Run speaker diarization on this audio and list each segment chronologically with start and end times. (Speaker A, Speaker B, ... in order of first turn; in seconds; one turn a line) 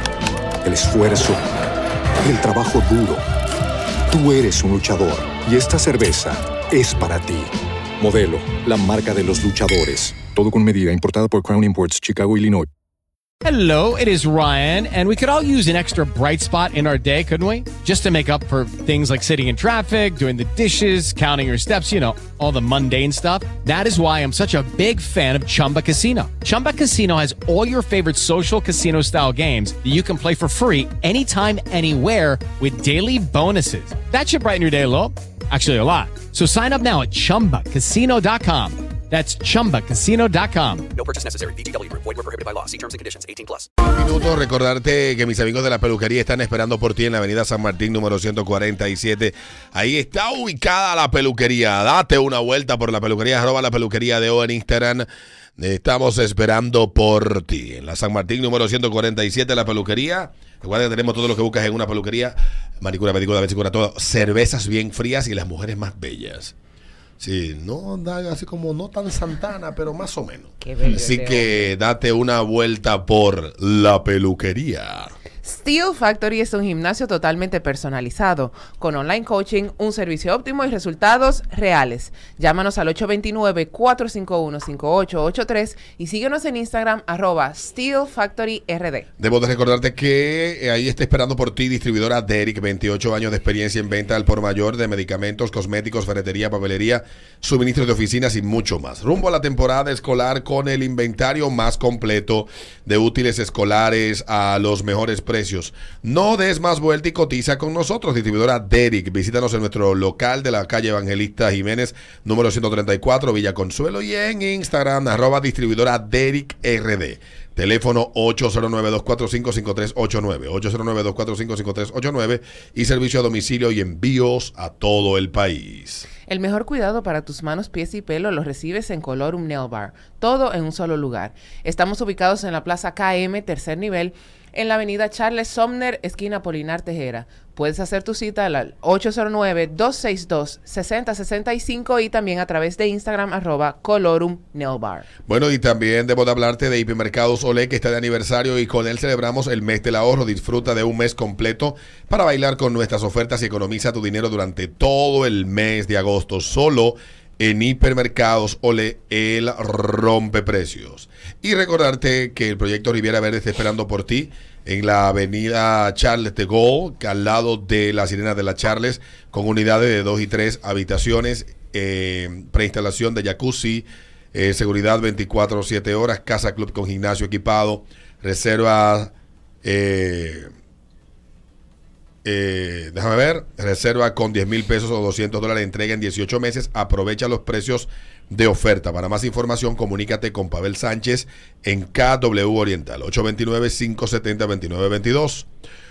Speaker A: 0.6-1.4
Speaker A: 2.2-3.2
Speaker A: 4.1-12.7
Speaker B: 13.4-40.9
Speaker C: 40.9-43.6
Speaker D: 43.9-55.1
Speaker D: 55.6-66.5
Speaker D: 67.2-75.1
Speaker E: 70.6-71.7
Speaker E: 75.4-89.1
Speaker D: 89.2-126.1
Speaker E: 126.2-145.1
Speaker D: 145.3-179.1
Speaker D: 179.6-180.5
Speaker D: 182.2-195.5